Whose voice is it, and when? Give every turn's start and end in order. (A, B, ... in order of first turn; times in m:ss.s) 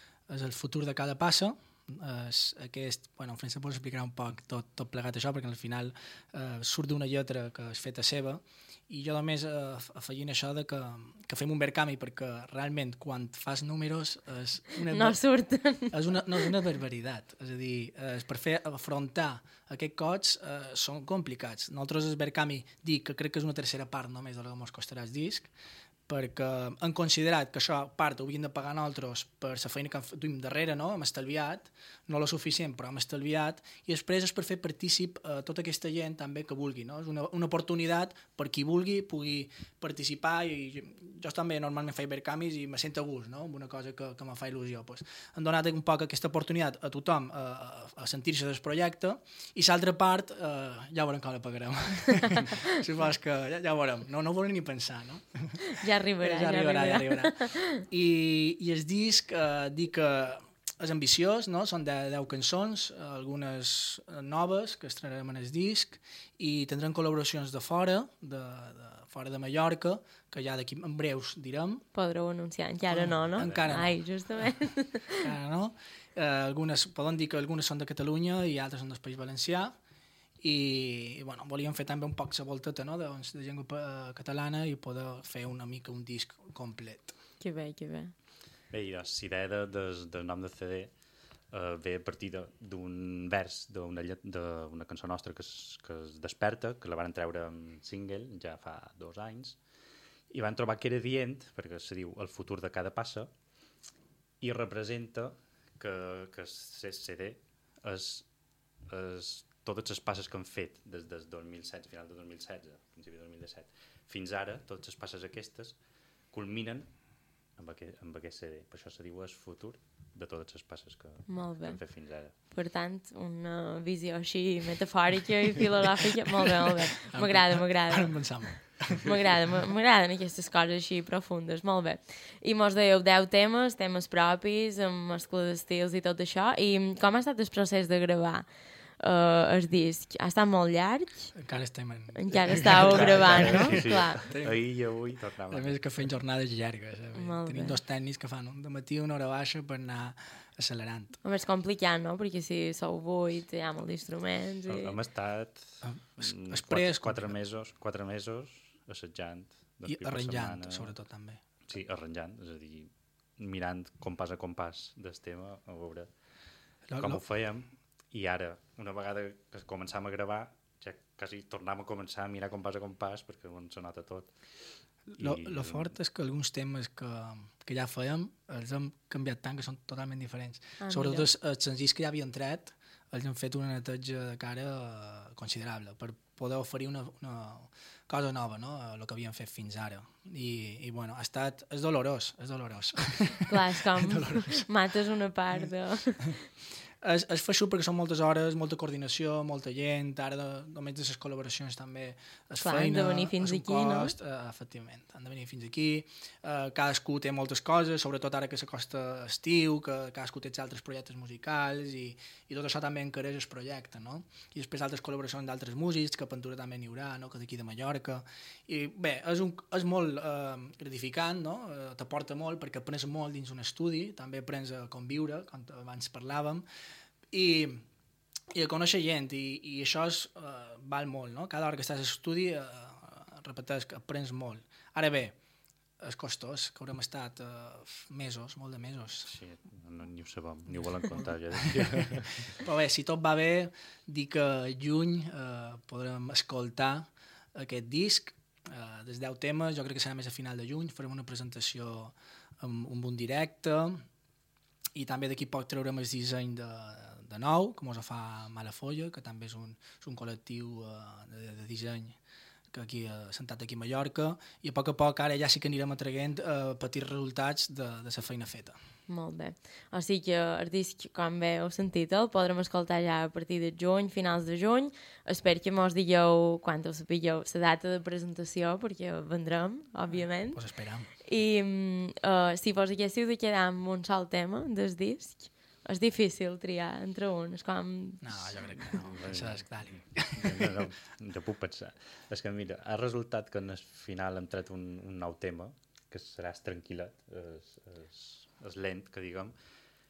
0:00.3-0:15.2 A
0:14.9-0:16.5 B
0:15.9-0:25.5 A
0:26.1-0:55.6 A
0:55.6-0:57.8 B
0:56.2-1:11.8 A
1:11.9-1:15.2 B
1:12.9-1:14.0 A
1:13.4-1:13.7 C
1:15.2-1:19.7 A
1:20.4-1:27.1 A
1:27.4-1:28.1 B
1:28.7-1:30.9 C
1:31.5-1:39.6 C
1:40.3-1:43.3 C
1:44.4-1:48.2 C
1:48.8-1:55.8 C
1:56.3-1:56.9 C
1:57.6-2:02.3 C
2:01.3-2:01.8 B
2:02.3-2:08.1 B
2:07.1-2:09.1 A
2:09.0-2:18.5 B
2:19.0-2:21.3 B
2:21.4-2:24.6 A
2:22.1-2:24.2 B
2:22.6-2:26.1 C
2:25.5-2:31.2 A
2:27.1-2:27.8 B
2:31.2-2:34.9 B
2:34.7-2:40.9 C
2:35.8-2:37.3 A
2:39.9-2:41.4 A
2:41.6-2:46.1 C
2:46.9-2:47.2 A
2:47.0-2:55.9 C
2:55.1-3:14.6 A
3:00.8-3:01.3 B
3:13.5-3:16.3 B
3:17.0-3:46.6 A
3:22.6-3:24.1 B
3:47.3-3:47.8 A
3:48.5-3:55.4 A
3:56.0-3:59.3 A
3:59.2-4:02.6 C
4:00.7-4:14.0 A
4:14.9-4:22.2 A
4:22.7-4:28.8 A
4:29.1-4:40.6 B
4:40.5-4:41.1 A
4:41.2-4:48.5 B
4:48.2-4:50.8 A
4:49.0-4:59.5 C